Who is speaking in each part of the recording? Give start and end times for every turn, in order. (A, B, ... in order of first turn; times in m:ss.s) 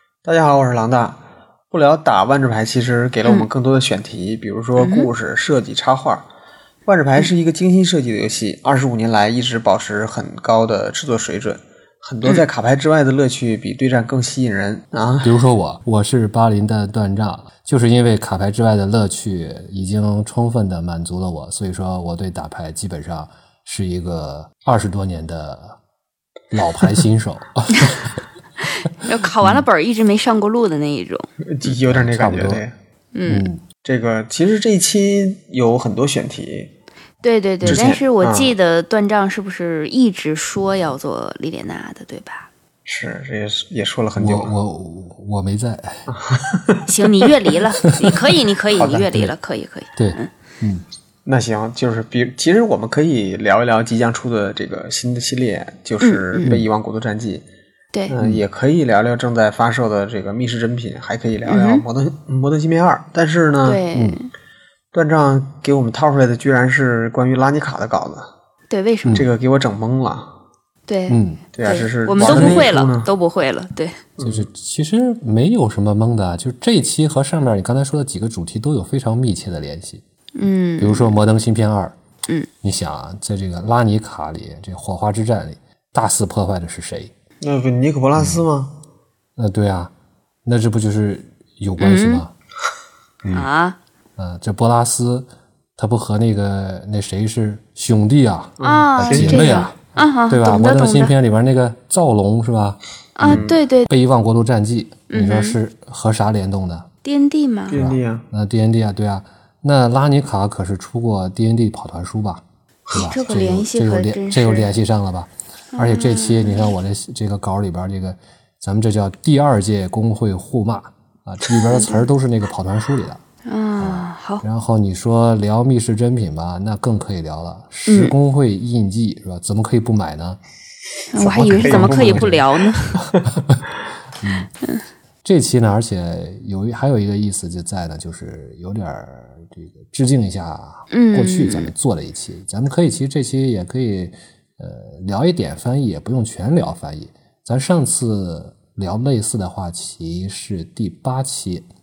0:00.2-0:06.2 A
0:04.8-0:05.1 B
0:06.8-0:15.4 A
0:15.2-0:25.8 C
0:26.5-0:28.2 C
0:28.9-0:31.3 B
0:29.4-0:29.6 C
0:31.5-0:32.7 A
0:31.9-0:32.6 C
0:33.1-0:33.5 B
0:33.3-0:33.6 C
0:33.8-0:36.7 A
0:37.2-0:42.5 B
0:37.6-0:38.6 A
0:42.8-0:44.5 A
0:44.2-0:46.1 C
0:46.1-0:46.8 A
0:46.8-0:50.3 B
0:48.8-0:49.1 A
0:49.0-0:49.3 C
0:50.0-0:50.8 C
0:51.2-0:57.4 A
0:56.0-0:56.5 B
0:58.1-1:03.8 A
1:01.5-1:01.8 B
1:03.6-1:04.3 B
1:03.9-1:04.2 C
1:04.9-1:08.3 A
1:08.7-1:09.2 B
1:09.1-1:10.3 A
1:10.9-1:14.0 B
1:11.1-1:11.4 C
1:11.5-1:13.1 A
1:12.2-1:12.8 C
1:14.2-1:14.5 A
1:14.2-1:20.0 C
1:20.4-1:21.1 B
1:20.8-1:21.9 C
1:22.6-1:27.1 C
1:27.4-1:28.7 A
1:28.2-1:28.4 C
1:29.4-1:29.9 C
1:30.4-1:32.3 C
1:31.8-1:32.2 B
1:33.3-1:33.8 B
1:34.2-1:39.8 C
1:38.6-1:39.7 A
1:38.6-1:41.1 B
1:40.3-1:46.9 C
1:43.2-1:43.9 B
1:43.2-1:43.6 A
1:45.1-1:45.6 B
1:47.0-1:47.8 B
1:47.7-1:48.2 A
1:47.7-2:03.2 C
1:52.9-1:54.8 B
1:55.8-1:56.7 B
2:01.8-2:02.0 B
2:03.4-2:04.4 B
2:03.8-2:10.4 C
2:07.9-2:08.1 B
2:11.1-2:12.9 B
2:11.2-2:13.2 A
2:11.2-2:12.4 C
2:14.2-2:14.5 C
2:15.2-2:31.7 C
2:20.9-2:21.7 B